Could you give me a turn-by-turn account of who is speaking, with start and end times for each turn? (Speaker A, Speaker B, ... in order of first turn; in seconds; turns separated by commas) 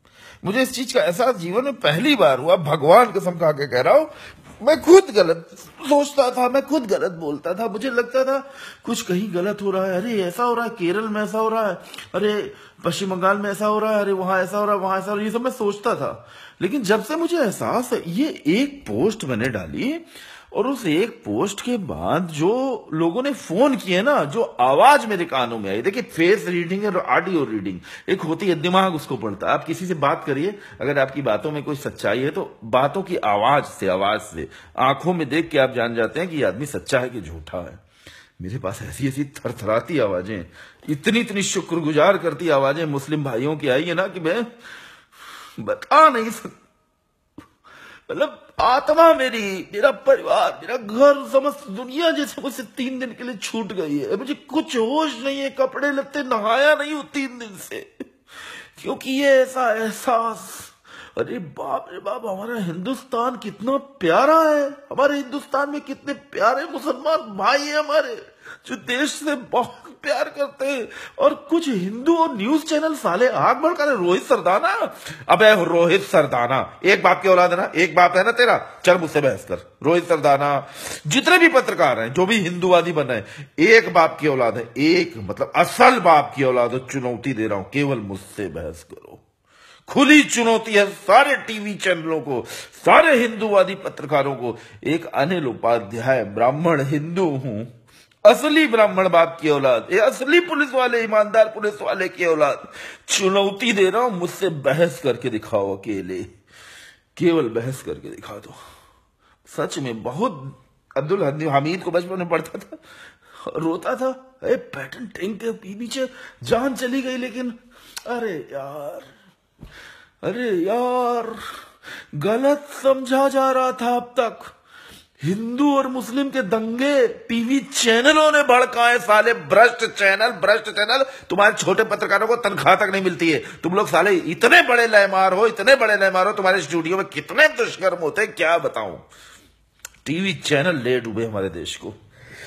Speaker A: 0.4-37.8, Speaker A: 38.4-44.5, Speaker A: 45.6-46.5, Speaker A: 48.1-57.9, Speaker A: 58.8-89.2, Speaker A: 89.9-97.7, Speaker A: 98.2-106.3, Speaker A: 107.1-108.6, Speaker A: 109.5-112.8, Speaker A: 113.5-119.1, Speaker A: 120.2-121.4, Speaker A: 122.2-124.5, Speaker A: 125.2-139.0, Speaker A: 140.0-141.9